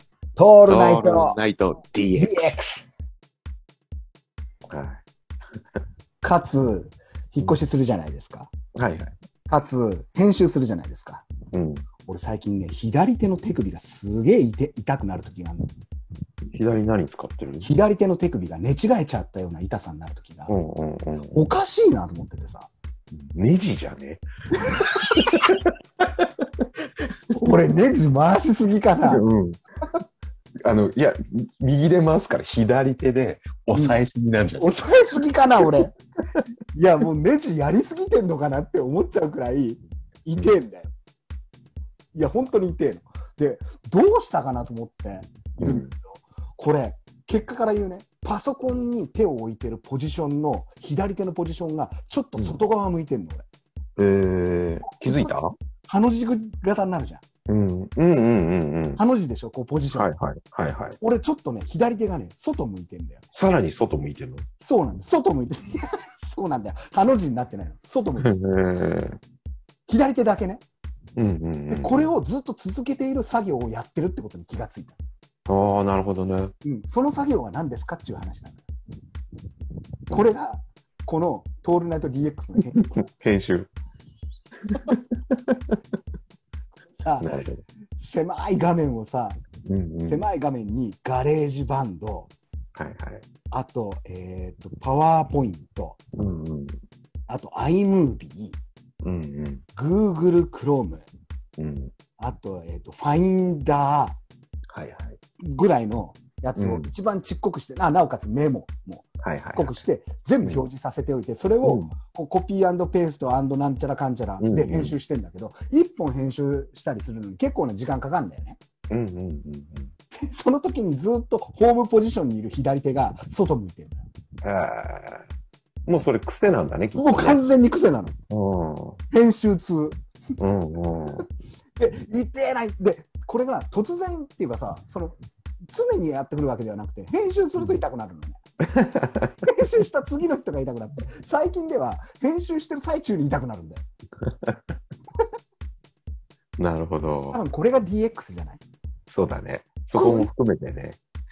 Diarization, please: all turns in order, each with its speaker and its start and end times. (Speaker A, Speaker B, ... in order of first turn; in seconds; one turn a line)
Speaker A: 0.4-1.4
Speaker B: 0.7-2.6
Speaker A: 2.1-2.9
Speaker B: 4.7-5.0
Speaker A: 6.2-8.5
Speaker B: 8.8-9.1
Speaker A: 9.5-11.3
Speaker B: 11.5-11.9
Speaker A: 12.1-15.7
Speaker B: 16.5-17.7
Speaker A: 17.6-20.6
Speaker B: 20.5-21.5
Speaker A: 21.3-22.7
Speaker B: 23.1-26.3
Speaker A: 27.4-29.2
Speaker B: 29.0-29.6
Speaker B: 30.6-34.8
Speaker A: 33.7-34.0
Speaker A: 34.6-36.0
Speaker B: 35.6-35.9
Speaker A: 36.7-40.9
Speaker A: 42.1-53.5
Speaker B: 45.6-45.9
Speaker B: 54.0-55.5
Speaker A: 55.0-55.3
Speaker A: 55.9-57.2
Speaker B: 57.5-59.0
Speaker A: 59.0-60.1
Speaker B: 59.9-61.0
Speaker A: 61.0-63.2
Speaker B: 63.3-64.5
Speaker A: 64.6-68.3
Speaker B: 68.2-69.2
Speaker A: 69.9-70.6
Speaker B: 71.2-72.1
Speaker A: 71.7-75.0
Speaker B: 75.5-76.5
Speaker A: 76.6-78.6
Speaker A: 80.1-83.0
Speaker B: 82.8-83.7
Speaker B: 84.7-85.8
Speaker A: 87.0-87.3
Speaker B: 87.2-87.6
Speaker A: 88.0-89.4
Speaker B: 89.7-90.3
Speaker A: 90.1-92.3
Speaker B: 92.8-93.3
Speaker A: 93.5-96.0
Speaker B: 96.2-96.8
Speaker A: 97.3-98.6
Speaker B: 99.0-99.6
Speaker A: 99.8-101.1
Speaker B: 101.6-101.9
Speaker A: 102.2-104.2
Speaker B: 104.7-105.2
Speaker A: 105.4-118.6
Speaker B: 106.6-106.9
Speaker B: 109.2-109.8
Speaker B: 111.6-111.9
Speaker B: 114.4-115.0
Speaker B: 118.9-119.9
Speaker A: 120.1-124.1
Speaker B: 124.4-125.3
Speaker B: 125.9-127.4
Speaker A: 127.0-128.2
Speaker B: 128.3-129.0
Speaker A: 129.1-130.0
Speaker B: 130.4-131.2
Speaker A: 131.8-135.2
Speaker A: 135.7-138.4
Speaker B: 138.7-139.3
Speaker A: 139.4-143.9
Speaker B: 144.2-144.6
Speaker B: 146.6-147.4
Speaker A: 147.3-148.6
Speaker B: 149.1-151.0
Speaker A: 149.9-150.3